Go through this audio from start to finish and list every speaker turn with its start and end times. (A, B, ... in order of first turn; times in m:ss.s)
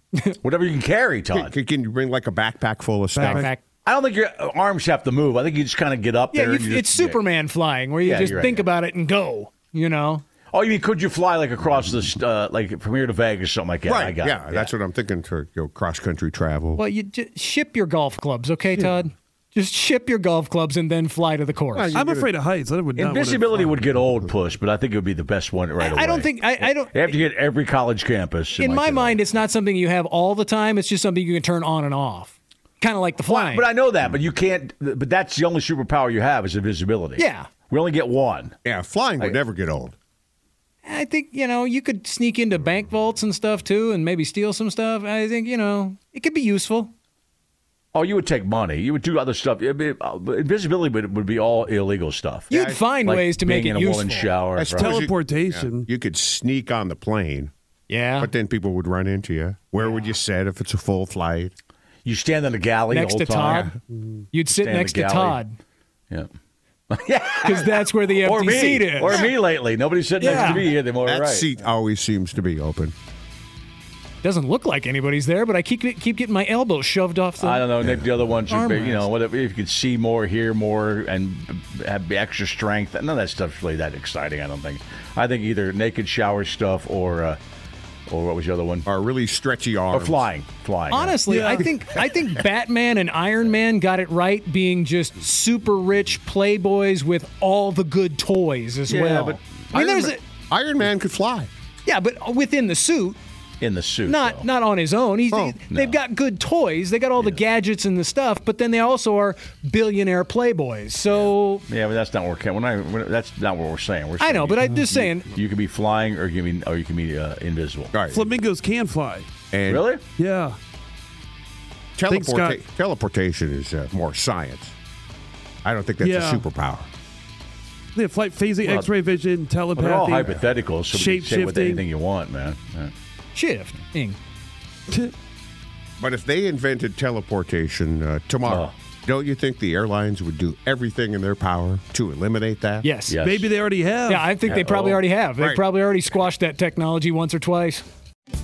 0:00.4-0:01.5 A
0:01.3-0:03.5 B
0:03.1-0:03.5 C
0:03.2-0:03.6 D
0:03.8-0:07.2 A
0:06.3-0:10.2 D
0:08.0-0:08.6 A
0:10.5-0:14.7 A
0:13.8-0:16.8 B
0:16.8-0:22.0 D
0:21.7-0:22.3 B
0:21.9-0:23.8 C
0:23.0-0:29.2 A
0:25.8-0:27.2 D
0:28.6-0:33.7 D
0:33.3-0:38.6 A
0:37.2-0:37.5 D
0:38.6-0:39.9 B
0:40.8-0:46.9 D
0:47.9-0:52.5 A
0:52.5-0:52.8 B
0:52.5-0:54.3 D
0:53.0-0:55.0 A
0:54.6-0:57.5 B
0:54.8-0:55.9 C
0:57.9-0:58.3 D
0:58.2-1:01.5 B
1:02.0-1:03.7 A
1:02.9-1:03.7 D
1:03.4-1:03.7 B
1:04.3-1:05.6 D
1:04.5-1:05.4 A
1:06.9-1:11.5 A
1:07.4-1:09.3 D
1:10.2-1:10.7 D
1:10.2-1:12.9 B
1:14.2-1:17.6 D
1:17.4-1:27.4 A
1:18.5-1:19.1 D
1:28.1-1:28.9 A
1:28.8-1:30.2 B
1:29.9-1:31.2 A
1:30.9-1:40.2 D
1:31.3-1:31.7 C
1:38.9-1:39.4 A
1:39.7-1:41.5 B
1:41.8-1:43.2 D
1:43.6-1:44.4 A
1:44.0-1:51.6 D
1:45.3-1:45.6 B
1:45.7-1:46.0 A
1:51.1-1:57.9 A
1:54.2-1:55.3 D
1:57.9-1:58.2 B
1:58.1-1:59.3 C
1:59.5-1:59.9 B
1:59.7-2:00.0 A
2:00.2-2:00.6 C
2:02.0-2:04.7 B
2:02.1-2:02.6 C
2:05.6-2:06.9 B
2:06.0-2:06.4 C
2:07.9-2:11.8 C
2:08.6-2:08.9 A
2:09.7-2:12.9 A
2:13.3-2:14.2 D
2:14.9-2:15.1 C
2:16.0-2:22.9 B
2:18.5-2:18.7 A
2:22.8-2:23.2 D
2:23.1-2:23.5 A
2:23.2-2:24.3 C
2:24.0-2:27.8 D
2:24.4-2:25.0 A
2:25.4-2:25.6 B